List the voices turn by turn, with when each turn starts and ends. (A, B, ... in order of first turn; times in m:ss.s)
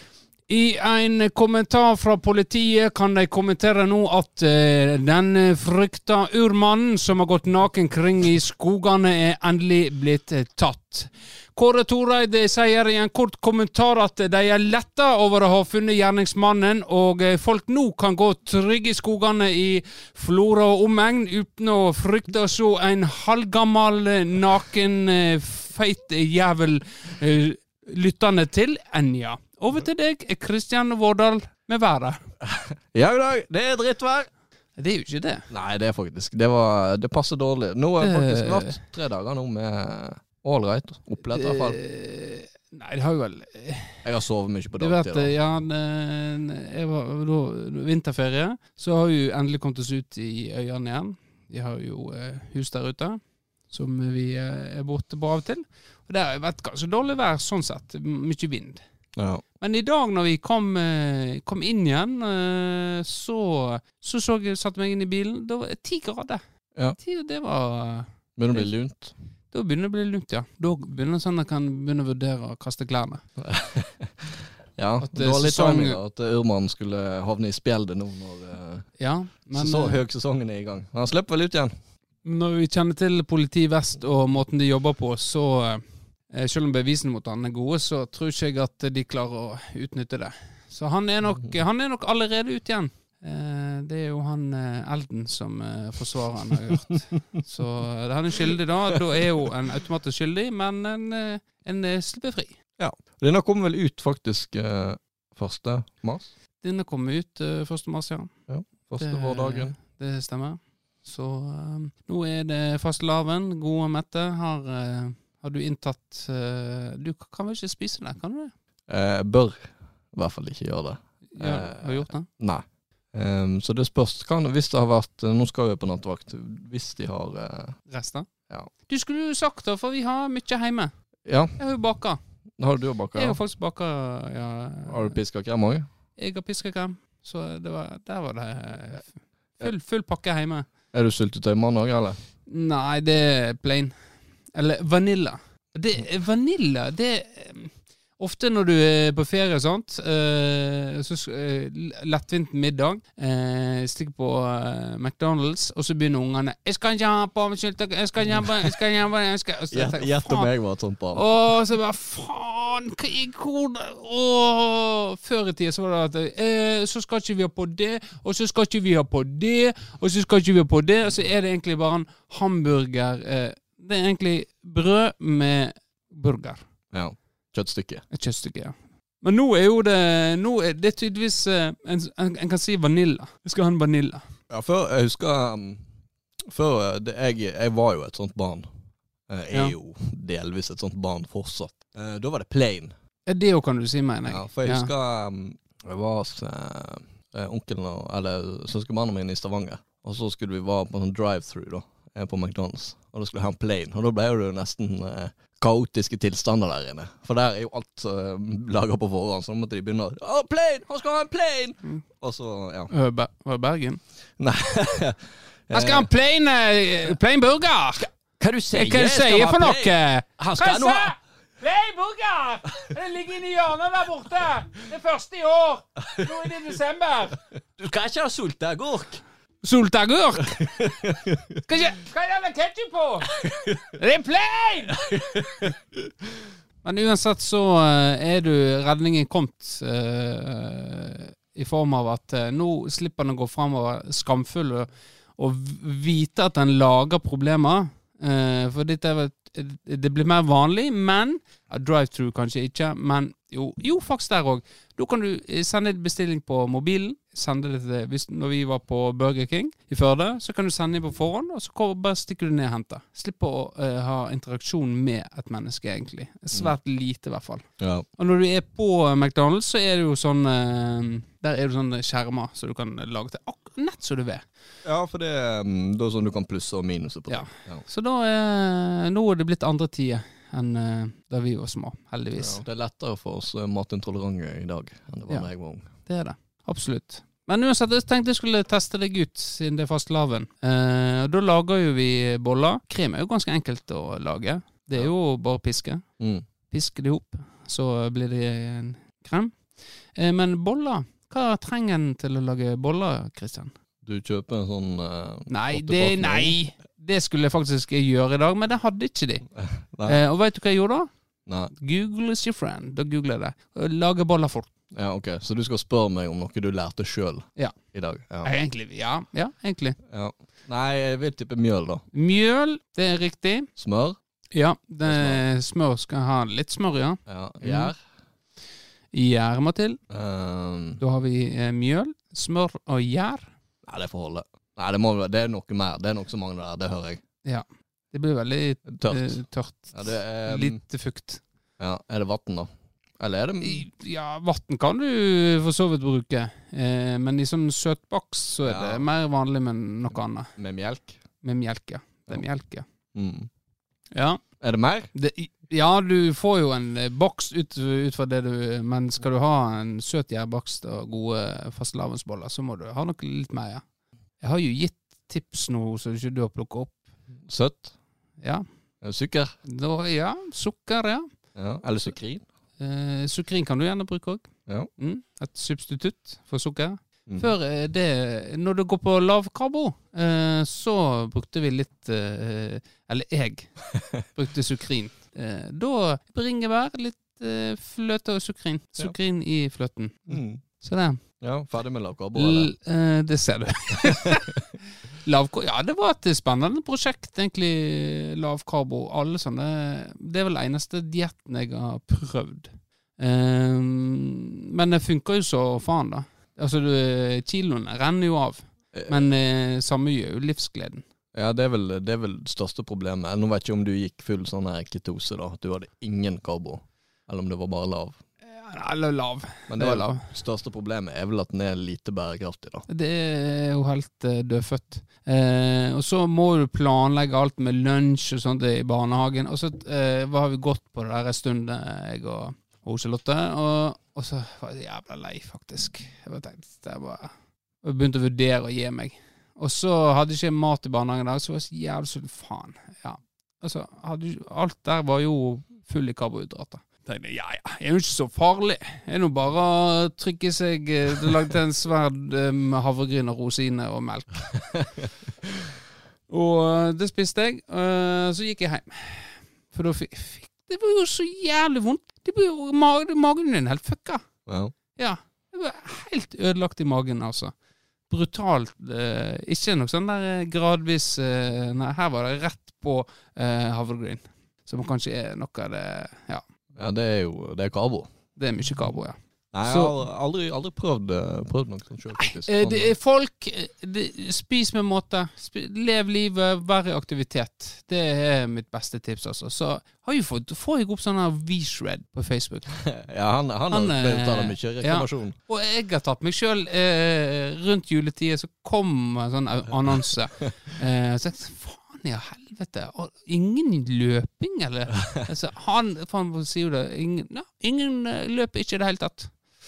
0:00.5-0:32.2 A
0:32.4-0:34.3 B
0:34.8-0:35.5 A
0:35.5-0:41.8 B
0:38.0-0:38.8 A
0:41.2-0:44.0 A
0:44.0-0:45.3 B
0:44.8-0:58.8 A
0:59.2-0:59.4 B
0:59.6-1:06.4 A
1:07.0-1:08.7 A
1:08.4-1:09.1 B
1:09.5-1:13.2 A
1:13.4-1:18.8 B
1:15.0-1:16.0 A
1:19.0-1:20.0 A
1:19.5-1:21.7 B
1:22.2-1:42.6 A
1:42.8-1:46.3 B
1:46.6-1:48.3 A
1:48.5-1:49.8 B
1:49.0-1:58.5 A
1:58.9-2:07.8 B
2:01.3-2:02.3 A
2:07.9-2:08.3 A
2:08.9-2:10.9 A
2:11.3-2:11.6 B
2:11.6-2:12.2 A
2:12.6-2:13.4 B
2:13.2-2:15.2 A
2:14.9-2:15.9 B
2:16.2-2:20.7 A
2:20.9-2:22.2 B
2:22.5-2:23.9 A
2:24.5-2:40.5 A
2:39.7-2:41.3 B
2:41.1-2:56.6 A
2:56.9-2:58.0 B
2:58.1-3:04.2 A
3:04.5-3:05.8 B
3:06.5-3:08.7 B
3:09.3-3:12.9 B
3:13.3-3:14.9 A
3:14.3-3:32.9 B
3:32.9-3:34.0 A
3:34.4-3:36.1 B
3:35.7-3:38.1 A
3:38.2-3:41.1 B
3:38.7-3:47.4 A
3:46.0-3:46.3 B
3:47.8-3:49.2 B
3:49.6-3:50.6 A
3:50.5-3:51.6 B
3:51.7-3:53.3 A
3:53.3-3:54.0 B
3:53.9-3:55.0 A
3:54.9-3:56.1 B
3:56.8-4:27.6 A
4:27.8-4:28.1 B
4:28.2-4:34.4 A
4:34.8-4:37.8 B
4:37.3-4:42.6 A
4:42.4-4:45.9 B
4:46.1-4:56.0 A
4:56.2-4:56.5 B
4:56.7-5:03.7 A
5:04.0-5:06.6 B
5:05.5-5:09.4 A
5:09.5-5:10.2 B
5:10.1-5:11.1 A
5:11.5-5:11.7 B
5:11.7-5:14.7 A
5:14.9-5:18.5 B
5:18.4-5:20.0 A
5:20.0-5:22.0 B
5:22.1-5:23.7 A
5:23.8-5:24.2 B
5:24.5-5:27.9 A
5:25.0-5:25.4 B
5:27.3-5:28.0 B
5:29.1-5:30.0 A
5:30.1-5:31.0 B
5:31.0-5:33.5 A
5:33.8-5:37.2 B
5:37.4-5:41.4 A
5:38.9-5:39.4 B
5:39.9-5:40.8 B
5:41.8-5:43.9 B
5:43.6-5:50.5 A
5:48.6-5:49.1 B
5:50.6-5:51.2 B
5:51.4-5:52.8 A
5:53.1-5:53.5 B
5:54.1-5:54.4 A
5:54.6-5:55.1 B
5:55.1-6:03.8 A
6:04.4-6:07.0 A
6:07.5-6:07.9 B
6:09.0-6:09.5 B
6:09.7-6:11.3 A
6:11.6-6:12.4 B
6:12.8-6:23.7 A
6:23.9-6:24.2 B
6:24.4-6:31.2 A
6:30.3-6:30.6 B
6:31.4-6:32.7 B
6:32.4-6:51.0 A
6:34.0-6:34.4 B
6:48.9-6:49.2 B
6:51.3-6:58.2 B
6:58.4-7:00.3 A
6:59.7-7:02.9 B
7:02.9-7:34.8 A
7:34.8-7:35.1 B
7:36.3-7:44.2 A
7:44.5-7:44.7 B
7:45.0-7:47.5 A
7:48.1-7:56.4 A
7:56.8-7:58.1 B
7:58.4-8:00.0 A
7:59.5-8:02.9 B
8:02.2-8:12.8 A
8:12.8-8:15.4 B
8:13.7-8:29.4 A